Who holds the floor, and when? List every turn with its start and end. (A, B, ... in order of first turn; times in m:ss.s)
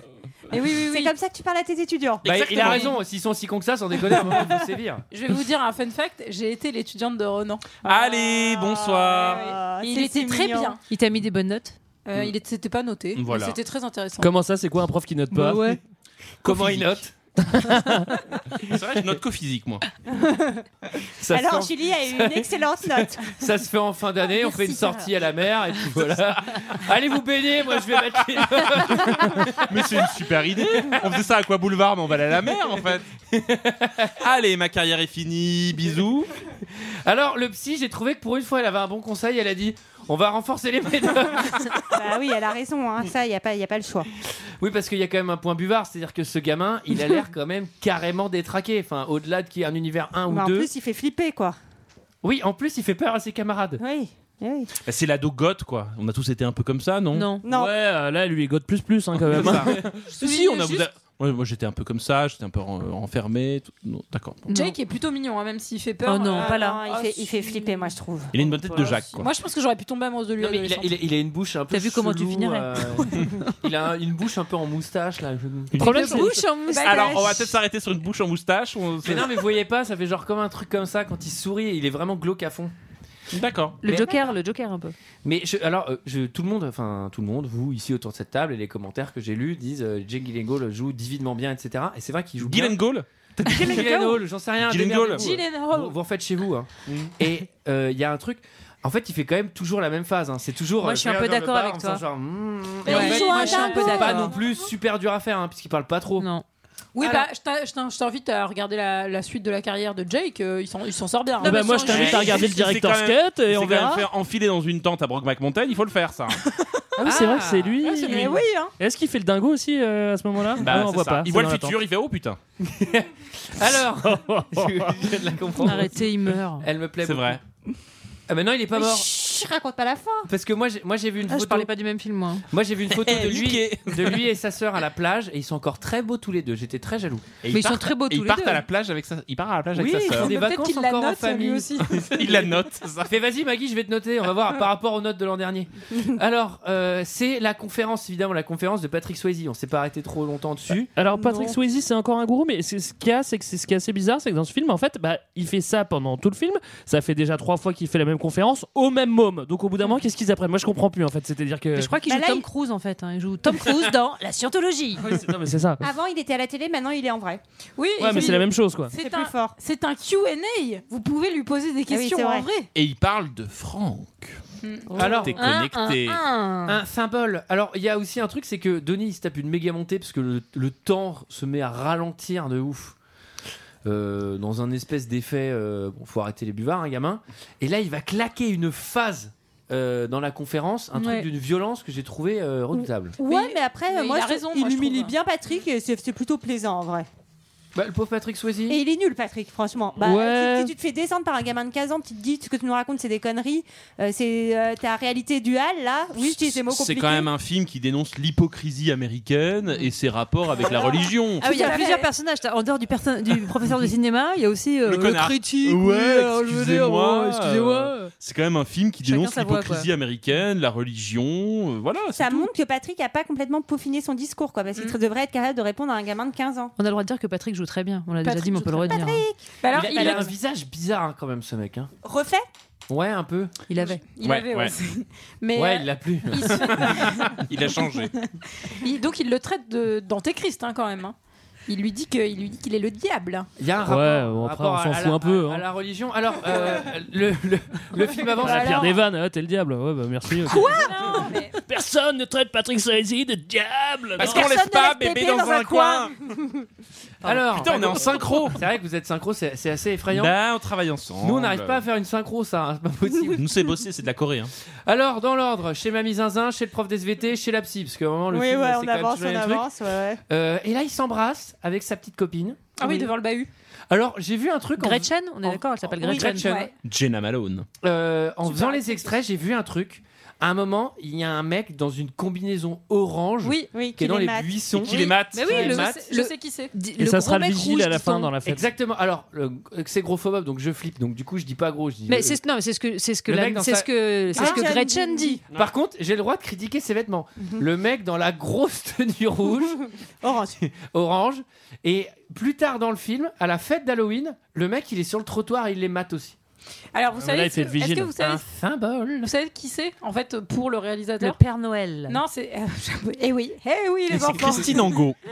0:00.5-0:01.1 A
0:00.7-0:02.9 B
0:02.2-0:05.0 C
0:02.3-0:02.6 D
0:02.7-0:02.9 A
0:05.1-0:07.8 A
0:07.8-0:09.5 D
0:07.9-0:10.8 B
0:09.4-0:10.8 A
0:10.9-0:11.8 E
0:12.0-0:14.3 A
0:13.1-0:13.6 D
0:14.2-0:15.8 F
0:15.3-0:15.8 E
0:16.4-0:18.0 C
0:16.5-0:17.0 D
0:17.6-0:18.1 F
0:18.6-0:19.8 D
0:20.1-0:20.6 B
0:21.2-0:29.8 C
0:21.3-0:23.3 B
0:24.3-0:25.1 E
0:29.1-0:33.0 D
0:33.3-0:34.2 C
0:34.2-0:36.3 D
0:36.8-0:41.8 C
0:41.9-0:44.1 B
0:44.6-0:50.7 C
0:50.3-0:51.6 B
0:52.2-0:53.8 C
0:53.8-0:54.7 B
0:54.9-0:57.4 D
0:57.1-0:57.4 E
0:57.4-0:57.8 B
0:57.4-1:00.1 F
0:59.2-1:04.5 D
1:00.2-1:00.8 A
1:04.5-1:04.8 E
1:04.5-1:07.9 A
1:06.0-1:06.9 E
1:06.3-1:08.3 B
1:08.3-1:09.3 D
1:08.7-1:10.9 A
1:10.4-1:16.2 C
1:11.7-1:13.7 E
1:15.8-1:16.5 F
1:15.9-1:17.5 E
1:16.7-1:17.4 A
1:16.7-1:19.4 D
1:19.0-1:22.7 C
1:23.3-1:23.8 D
1:23.8-1:25.0 E
1:23.9-1:24.2 B
1:25.2-1:32.8 C
1:32.4-1:33.9 D
1:33.4-1:46.3 C
1:33.5-1:34.2 E
1:34.6-1:35.4 D
1:35.2-1:35.9 A
1:35.2-1:35.6 E
1:36.9-1:37.1 D
1:40.8-1:42.0 E
1:42.8-1:44.4 E
1:42.8-1:44.4 A
1:46.2-1:46.4 E
1:47.0-1:52.2 A
1:47.0-1:47.3 C
1:51.4-1:52.5 E
1:51.4-1:54.1 F
1:51.9-1:56.4 D
1:57.0-2:01.8 F
1:57.0-1:57.8 C
1:57.8-1:58.3 D
1:58.0-1:58.7 B
2:00.6-2:02.4 D
2:02.6-2:06.0 C
2:03.8-2:05.3 F
2:05.6-2:06.7 E
2:06.6-2:07.4 C
2:07.0-2:07.4 D
2:08.3-2:09.1 C
2:08.8-2:10.3 B
2:10.3-2:11.7 C
2:11.3-2:12.4 E
2:12.5-2:17.3 C
2:12.9-2:14.3 D
2:17.4-2:20.3 D
2:17.5-2:18.6 E
2:19.7-2:30.9 C
2:20.2-2:22.4 A
2:22.0-2:23.2 D
2:30.9-2:42.0 F
2:31.1-2:31.6 B
2:41.8-2:45.1 E
2:42.1-2:42.4 B
2:45.1-2:45.9 F
2:45.8-2:47.4 B
2:47.8-2:52.7 A
2:48.0-2:48.9 F
2:48.9-2:49.6 B
2:51.9-2:52.5 B
2:52.8-2:54.4 D
2:54.6-2:55.2 A
2:54.9-2:55.3 B
2:55.0-2:55.4 C
2:55.3-2:56.2 D
2:55.4-2:56.8 E
2:56.7-3:03.0 C
3:03.8-3:13.2 C
3:10.9-3:11.3 E
3:12.8-3:17.1 B
3:13.2-3:15.2 A
3:17.8-3:18.8 C
3:18.7-3:27.3 B
3:20.0-3:20.7 F
3:26.2-3:31.5 D
3:30.6-3:31.9 B
3:31.4-3:32.0 A
3:31.4-3:38.1 E
3:34.8-3:42.4 D
3:39.0-3:39.9 E
3:42.2-3:46.7 B
3:46.8-3:49.2 E
3:48.2-3:50.3 A
3:48.9-3:50.3 B
3:49.7-3:51.9 C
3:52.0-3:52.5 B
3:52.9-3:53.5 C
3:53.7-3:54.0 E
3:53.8-3:57.5 A
3:54.2-3:54.7 D
3:55.5-3:56.9 C
3:56.9-3:58.1 D
3:58.7-4:01.2 A
4:01.7-4:03.5 A
4:03.6-4:08.9 C
4:03.8-4:05.7 F
4:08.2-4:09.0 A
4:08.4-4:10.8 F
4:10.5-4:11.0 E
4:10.5-4:11.6 A
4:11.6-4:14.5 F
4:14.2-4:16.2 D
4:14.2-4:16.0 E
4:14.3-4:16.6 B
4:17.2-4:20.4 C
4:17.3-4:18.6 D
4:20.1-4:21.8 D
4:21.2-4:23.4 C
4:23.3-4:24.5 D
4:24.9-4:29.7 C
4:28.3-4:30.2 B
4:30.3-4:33.1 C
4:32.8-4:33.5 A
4:33.9-4:35.1 C
4:34.8-4:36.5 E
4:35.5-4:36.4 B
4:36.0-4:36.7 C
4:36.3-4:36.7 A
4:36.8-4:37.7 D
4:37.8-4:46.1 C
4:38.5-4:39.1 A
4:43.4-4:43.7 A
4:43.7-4:45.1 B
4:44.8-4:45.5 D
4:45.0-4:46.7 A
4:45.3-4:48.3 E
4:47.0-4:48.7 F
4:48.4-4:52.4 C
4:52.1-4:55.4 E
4:53.3-4:54.7 C
4:54.4-4:55.4 B
4:55.5-4:59.8 C
5:00.2-5:00.6 B
5:00.6-5:06.4 C
5:06.9-5:08.4 A
5:07.2-5:08.2 F
5:08.2-5:09.3 C
5:09.2-5:11.4 A
5:11.2-5:12.2 E
5:12.1-5:14.9 A
5:14.1-5:15.2 D